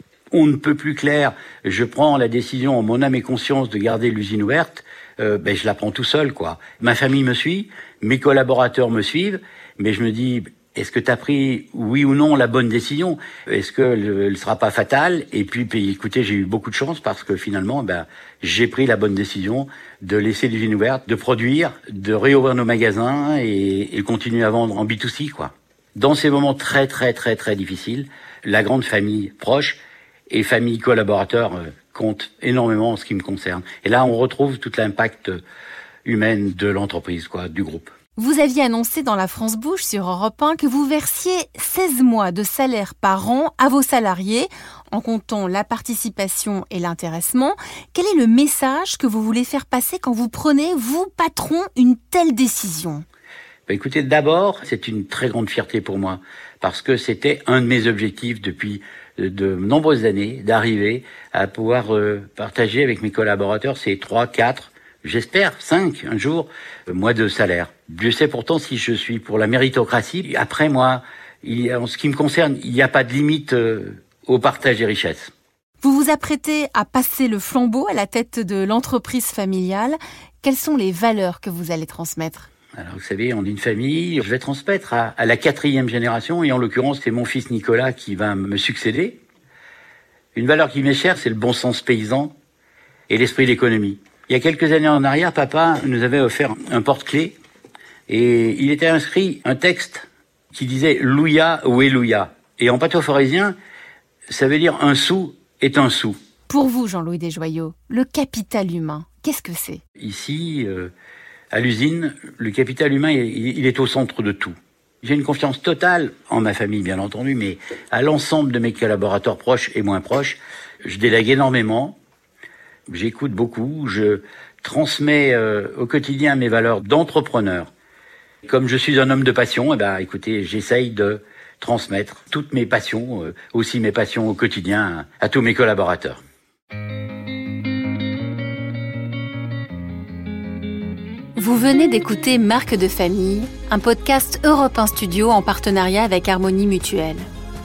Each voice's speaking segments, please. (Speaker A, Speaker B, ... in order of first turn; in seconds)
Speaker A: 0.3-29.8, 30.3-35.4, 36.0-37.9, 53.7-75.3, 82.8-89.2, 90.3-92.3, 93.1-97.3, 98.1-103.5, 104.3-106.2, 110.0-110.9, 111.5-122.0, 122.9-127.7, 128.5-136.2
Speaker B: 38.2-53.0, 75.8-82.5, 106.5-109.8, 141.4-147.3